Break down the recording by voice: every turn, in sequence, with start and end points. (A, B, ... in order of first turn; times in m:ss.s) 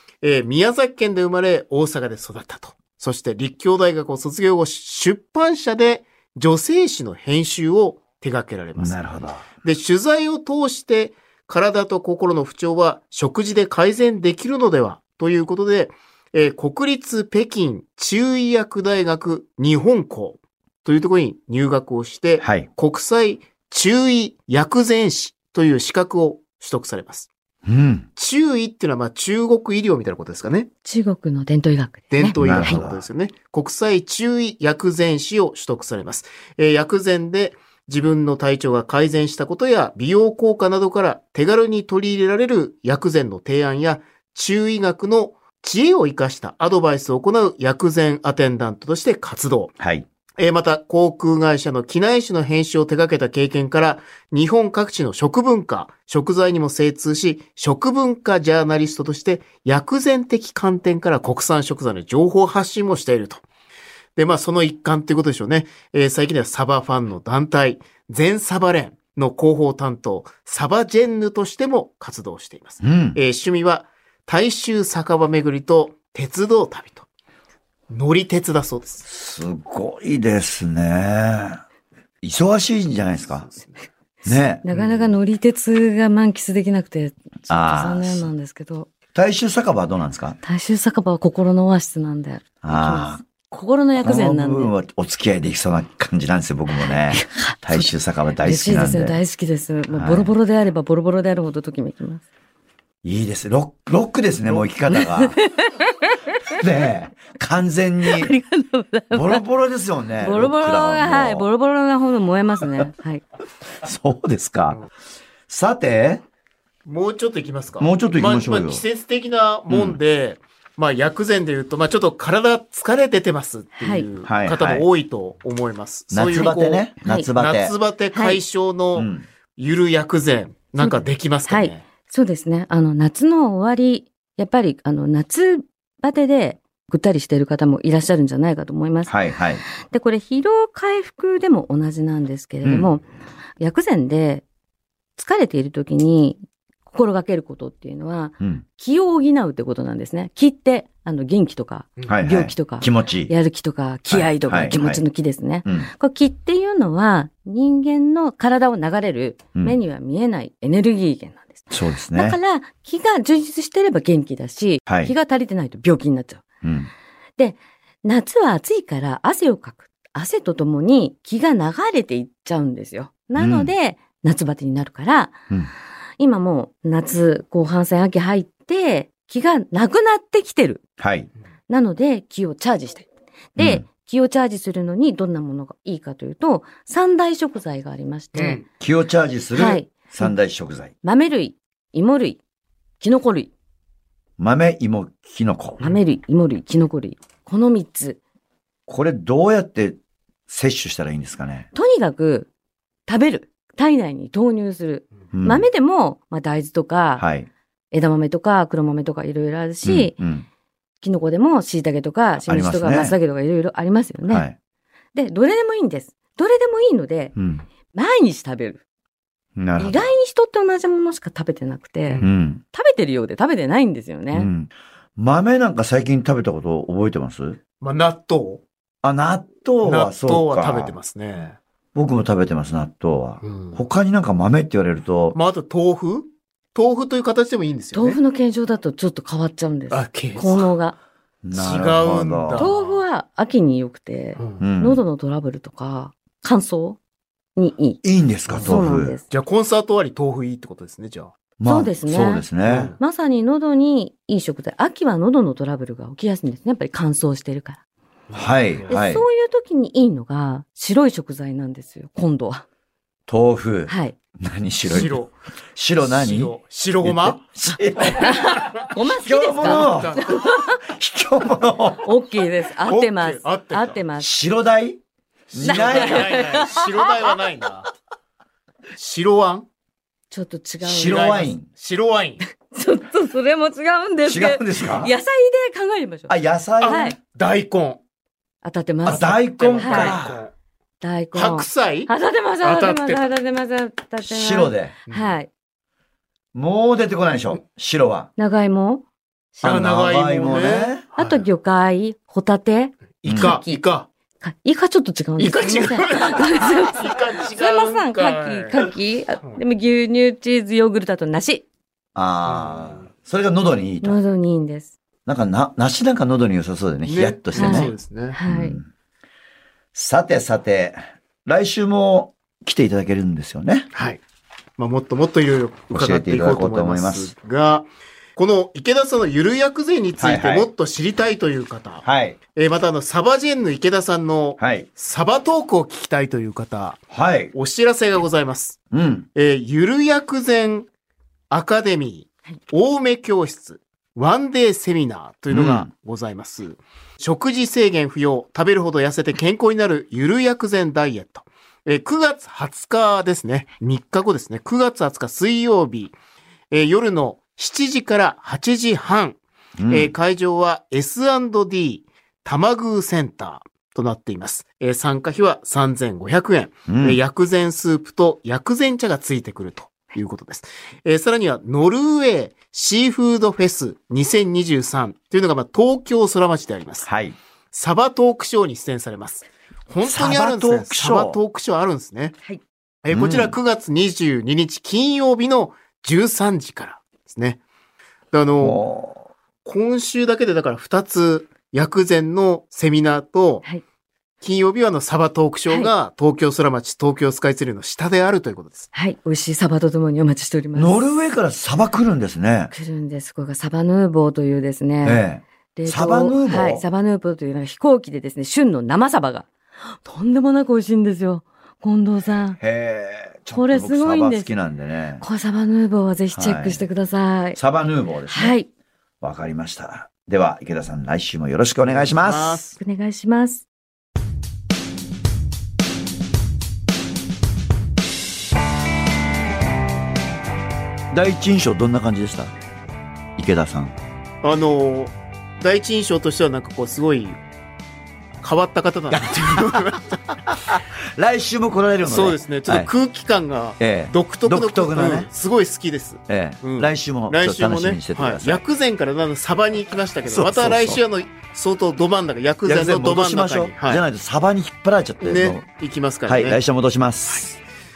0:00.2-0:09.0 A
0:08.8-0:09.5 B
0:09.6-0:27.3 A
0:22.4-0:22.7 B
0:27.6-0:28.1 B
0:28.2-0:30.7 A
0:30.8-0:32.8 C
0:32.1-0:49.7 A
0:32.4-0:33.1 B
0:49.8-0:50.1 B
0:50.4-1:03.4 A
1:04.2-1:17.1 A
1:12.8-1:13.2 B
1:17.9-1:19.0 A
1:19.1-1:21.6 B
1:22.2-1:23.5 B
1:23.4-1:23.8 A
1:24.2-1:24.6 B
1:24.6-1:28.9 C
1:24.7-1:25.1 A
1:27.5-1:28.3 B
1:29.1-1:30.4 B
1:30.4-1:34.7 C
1:32.6-1:33.3 B
1:34.0-1:39.2 B
1:36.7-1:42.2 C
1:39.9-1:40.3 B
1:43.0-1:45.4 B
1:44.9-1:46.6 C
1:46.5-1:48.3 B
1:48.0-1:49.4 C
1:49.1-1:51.5 B
1:50.2-1:53.2 C
1:53.8-1:54.8 B
1:55.5-1:56.2 B
1:56.8-2:11.8 A
1:57.8-1:58.8 B
1:59.7-2:00.0 B
2:03.8-2:04.1 C
2:04.2-2:04.8 B
2:06.1-2:07.7 B
2:07.0-2:07.3 C
2:08.1-2:08.4 C
2:09.0-2:09.3 B
2:10.8-2:19.1 C
2:19.1-2:19.6 B
2:19.8-2:23.0 C
2:22.6-2:22.9 B
2:23.6-2:24.4 C
2:25.2-2:46.4 C
2:32.1-2:33.3 B
2:34.1-2:35.0 B
2:41.7-2:42.4 B
2:44.9-2:45.1 B
2:46.6-2:46.9 B
2:47.4-2:55.4 C
2:53.4-2:53.7 B
2:56.2-3:00.8 C
3:01.0-3:01.3 B
3:01.7-3:08.6 C
3:03.6-3:03.9 B
3:08.4-3:08.6 A
3:08.8-3:10.9 B
3:09.5-3:10.4 C
3:11.0-3:12.4 C
3:13.0-3:13.5 C
3:14.4-3:15.8 B
3:15.8-3:18.2 C
3:18.9-3:21.7 B
3:21.7-3:22.5 C
3:23.1-3:27.2 C
3:25.3-3:25.7 B
3:27.2-3:27.5 B
3:27.9-3:30.2 C
3:29.8-3:30.5 B
3:31.0-3:34.5 C
3:32.5-3:33.2 B
3:34.3-3:34.6 B
3:35.1-3:37.4 C
3:37.4-3:37.7 B
3:37.9-3:38.8 C
3:39.6-3:40.1 B
3:39.8-3:44.5 C
3:42.2-3:42.6 B
3:44.3-3:47.6 B
3:47.8-3:48.6 A
3:49.0-3:51.0 B
3:49.8-3:51.6 A
3:52.0-3:55.4 B
3:53.4-3:53.8 A
3:55.3-3:58.2 A
3:57.9-4:01.0 C
3:59.9-4:00.7 A
4:01.4-4:02.7 B
4:01.5-4:03.0 A
4:02.6-4:07.0 C
4:04.4-4:04.7 A
4:04.6-4:05.0 B
4:07.6-4:08.0 C
4:08.0-4:09.2 B
4:08.5-4:08.8 A
4:08.6-4:09.2 C
4:09.3-4:11.3 A
4:11.6-4:12.9 B
4:11.6-4:12.5 C
4:12.6-4:13.0 A
4:13.0-4:17.8 C
4:18.3-4:19.0 A
4:18.3-4:19.2 B
4:18.9-4:22.6 C
4:23.3-4:25.2 B
4:23.9-4:24.2 C
4:24.9-4:25.3 A
4:25.8-4:32.1 B
4:26.0-4:27.4 A
4:28.1-4:30.8 C
4:29.6-4:30.3 A
4:32.0-4:34.3 C
4:32.8-4:34.0 A
4:34.2-4:35.0 B
4:35.5-4:36.4 B
4:35.6-4:37.9 A
4:35.6-4:37.3 C
4:39.0-4:39.7 A
4:40.3-4:41.4 C
4:40.8-4:41.7 B
4:41.0-4:42.4 A
4:42.5-4:46.3 C
4:44.3-4:45.1 B
4:46.3-4:47.0 B
4:46.8-4:48.0 A
4:46.8-4:47.2 C
4:48.6-4:50.2 C
4:49.0-4:50.5 A
4:49.1-4:50.4 B
4:51.0-4:55.5 C
4:51.3-4:52.1 A
4:52.6-4:53.3 A
4:54.2-4:55.0 B
4:55.1-4:55.4 A
4:56.5-4:58.3 B
4:58.4-4:59.0 C
4:59.6-4:59.8 C
4:59.6-5:01.0 B
4:59.6-5:01.5 A
5:01.1-5:03.8 C
5:03.2-5:04.1 A
5:03.2-5:03.6 B
5:04.4-5:11.7 C
5:05.4-5:08.8 A
5:12.2-5:14.2 B
5:12.5-5:13.1 A
5:14.0-5:15.0 C
5:15.3-5:17.9 B
5:17.0-5:18.4 A
5:17.6-5:18.8 C
5:18.5-5:18.9 B
5:19.9-5:23.9 B
5:23.9-5:24.2 A
5:24.8-5:32.0 A
5:25.9-5:27.3 B
5:30.2-5:30.7 B
5:32.0-5:32.4 B
5:32.6-5:37.0 A
5:34.6-5:34.9 B
5:37.1-5:37.5 B
5:37.5-5:38.8 A
5:38.9-5:39.3 B
5:39.4-5:40.9 A
5:41.5-5:56.2 A
5:45.5-5:45.9 B
5:56.7-6:17.1 A
5:59.8-6:00.1 B
6:06.9-6:07.2 B
6:17.1-6:17.4 B
6:17.7-6:22.4 A
6:20.0-6:21.4 B
6:23.0-6:27.6 A
6:23.1-6:23.6 B
6:28.3-6:28.8 A
6:28.6-6:29.3 B
6:29.6-6:33.6 A
6:34.4-6:38.9 A
6:38.9-6:41.1 C
6:40.8-6:42.7 B
6:42.7-6:45.2 C
6:45.0-6:46.8 B
6:45.8-6:49.5 C
6:50.0-6:52.6 C
6:52.6-6:55.2 B
6:53.5-6:54.5 C
6:55.2-6:57.6 C
6:56.3-6:56.8 B
6:57.6-6:58.6 B
6:58.3-6:58.7 C
6:59.2-7:02.6 B
7:01.8-7:02.8 A
7:02.8-7:03.6 C
7:11.1-7:12.5 B
7:13.4-7:14.0 B
7:14.4-7:17.4 A
7:18.4-7:20.2 A
7:19.1-7:22.9 B
7:22.0-7:34.0 A
7:23.8-7:25.3 B
7:26.3-7:28.6 B
7:30.3-7:31.0 B
7:32.7-7:35.6 B
7:35.2-7:36.6 A
7:36.3-7:37.5 B
7:37.3-7:37.6 A